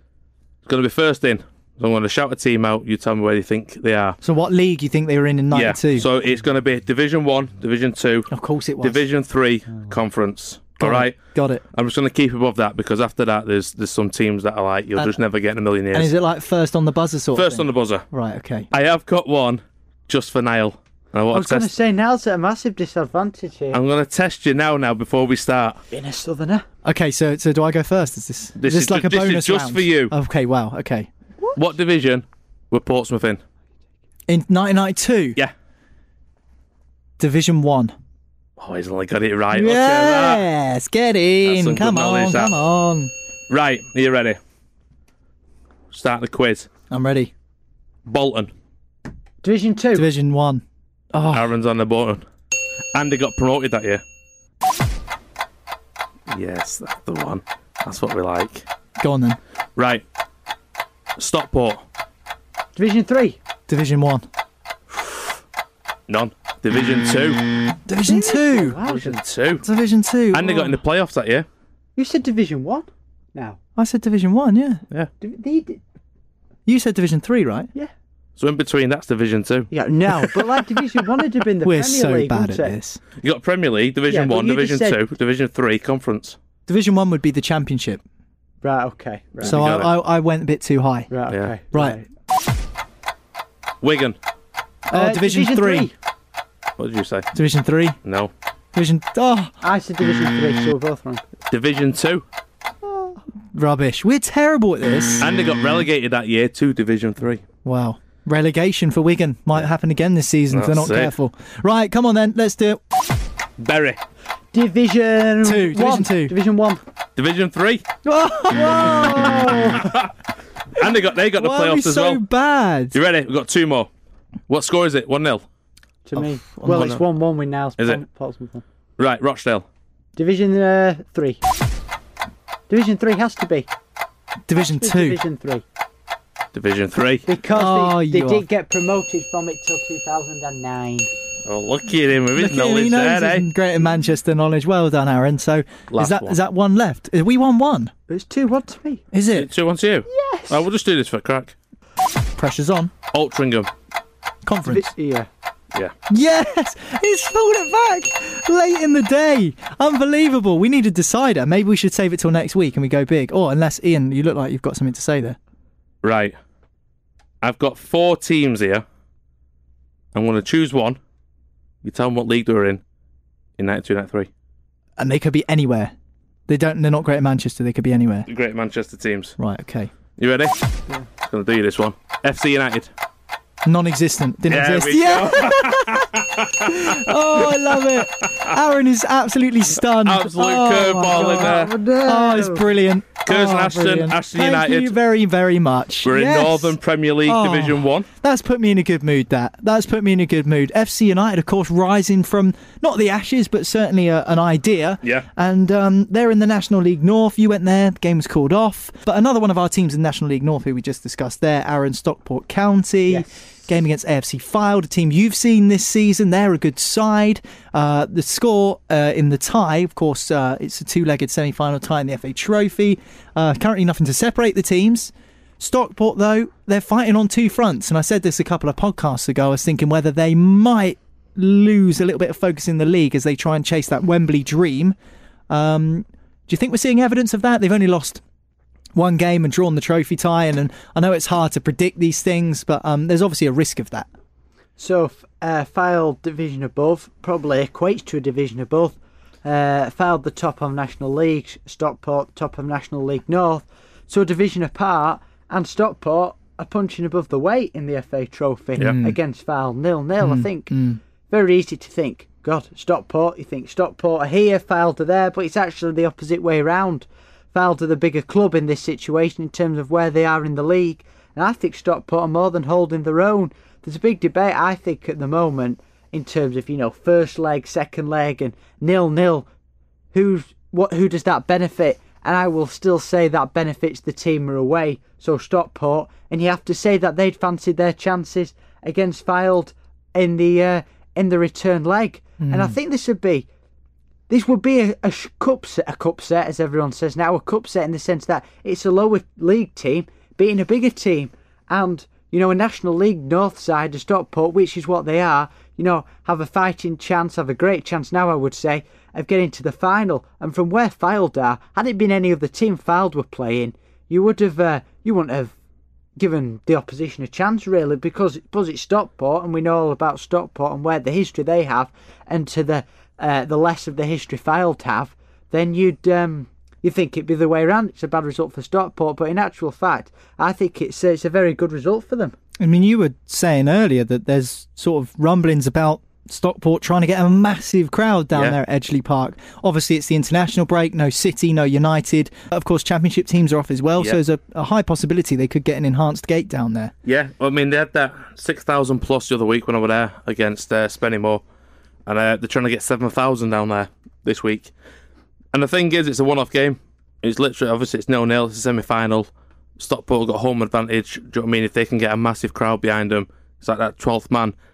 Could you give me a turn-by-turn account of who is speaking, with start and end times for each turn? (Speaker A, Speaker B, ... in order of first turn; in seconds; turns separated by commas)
Speaker A: 0.7-4.2, Speaker B: 4.2-6.1, Speaker A: 5.5-11.2, Speaker B: 8.3-9.0, Speaker B: 10.8-11.6, Speaker A: 11.7-16.1, Speaker B: 15.9-18.7, Speaker A: 17.3-18.0, Speaker A: 18.7-21.7, Speaker C: 21.3-23.8, Speaker A: 23.7-25.8, Speaker C: 25.9-26.6, Speaker B: 26.8-31.1, Speaker A: 28.6-30.1, Speaker A: 31.5-33.4, Speaker B: 34.3-35.4, Speaker B: 37.2-37.9, Speaker A: 38.6-40.5, Speaker B: 39.5-43.1, Speaker A: 41.4-42.5, Speaker A: 43.5-44.4, Speaker A: 45.9-46.7, Speaker B: 46.9-47.3, Speaker A: 48.0-48.5, Speaker C: 49.4-50.1, Speaker B: 49.9-51.5, Speaker A: 51.3-52.2, Speaker A: 52.9-54.0, Speaker A: 56.3-58.6, Speaker B: 59.0-59.4, Speaker A: 59.8-60.0, Speaker A: 61.2-61.8, Speaker C: 62.8-63.4, Speaker B: 63.7-64.3, Speaker A: 64.9-65.3, Speaker A: 66.1-67.4, Speaker B: 67.8-68.8, Speaker C: 68.0-69.2, Speaker A: 68.9-69.6, Speaker B: 69.6-70.8, Speaker A: 70.3-71.5, Speaker C: 72.0-73.6, Speaker B: 73.8-74.8, Speaker C: 75.2-75.8, Speaker B: 76.7-77.7, Speaker A: 78.4-79.7, Speaker C: 79.7-82.8, Speaker B: 81.6-83.0, Speaker A: 83.2-86.4, Speaker C: 84.1-85.0, Speaker B: 86.7-88.0, Speaker C: 88.6-89.6, Speaker A: 89.4-89.9, Speaker B: 89.4-91.1, Speaker C: 91.1-92.0, Speaker B: 91.7-92.0, Speaker A: 93.8-94.2, Speaker B: 94.9-95.9, Speaker C: 94.9-95.9, Speaker A: 96.8-97.3, Speaker B: 97.3-98.0, Speaker A: 98.0-98.3, Speaker B: 98.7-99.5, Speaker C: 99.6-101.2, Speaker A: 101.5-102.2, Speaker B: 102.8-105.2, Speaker A: 105.2-107.4, Speaker B: 107.6-112.8, Speaker A: 110.5-111.1, Speaker A: 113.6-114.0, Speaker C: 114.5-116.8, Speaker B: 115.4-116.3, Speaker A: 117.2-117.8, Speaker B: 118.0-119.8, Speaker C: 119.2-119.6, Speaker A: 119.7-120.1, Speaker A: 120.8-122.2, Speaker B: 121.3-123.0, Speaker A: 122.9-123.9, Speaker A: 124.5-125.4, Speaker C: 126.0-128.6, Speaker B: 126.2-127.0, Speaker A: 126.7-127.0, Speaker A: 129.0-129.7, Speaker C: 130.2-131.4, Speaker C: 132.7-133.7, Speaker B: 134.5-135.2, Speaker C: 134.6-135.6, Speaker A: 136.5-137.2, Speaker C: 137.2-141.1, Speaker B: 137.5-138.4, Speaker A: 141.4-143.4, Speaker B: 142.4-147.9, Speaker A: 145.9-146.4, Speaker C: 148.1-149.0, Speaker B: 149.1-149.5, Speaker A: 149.3-151.5, Speaker C: 150.1-150.6, Speaker B: 152.3-152.9, Speaker A: 153.1-153.7, Speaker B: 154.4-154.9, Speaker C: 154.6-155.3, Speaker B: 156.1-165.4, Speaker A: 166.0-166.3, Speaker A: 167.4-168.8, Speaker A: 170.1-171.0, Speaker A: 171.8-172.8, Speaker A: 173.6-174.3, Speaker B: 175.0-175.9, Speaker B: 176.5-178.3, Speaker A: 178.3-179.3, Speaker B: 179.4-179.9, Speaker A: 180.2-180.6, Speaker A: 181.1-182.9, Speaker B: 183.7-234.9, Speaker A: 184.5-188.5, Speaker A: 190.0-191.7, Speaker C: 191.1-192.7, Speaker A: 193.2-194.9, Speaker A: 196.0-198.1, Speaker B: 235.5-238.2, Speaker B: 238.9-244.1, Speaker C: 244.8-279.5, Speaker B: 258.8-259.2, Speaker B: 260.2-261.0, Speaker C: 280.1-293.5, Speaker B: 292.4-292.8, Speaker C: 294.3-315.6, Speaker C: 316.2-332.4, Speaker B: 332.6-346.9, Speaker A: 347.0-351.4, Speaker A: 352.1-354.7, Speaker A: 355.5-364.5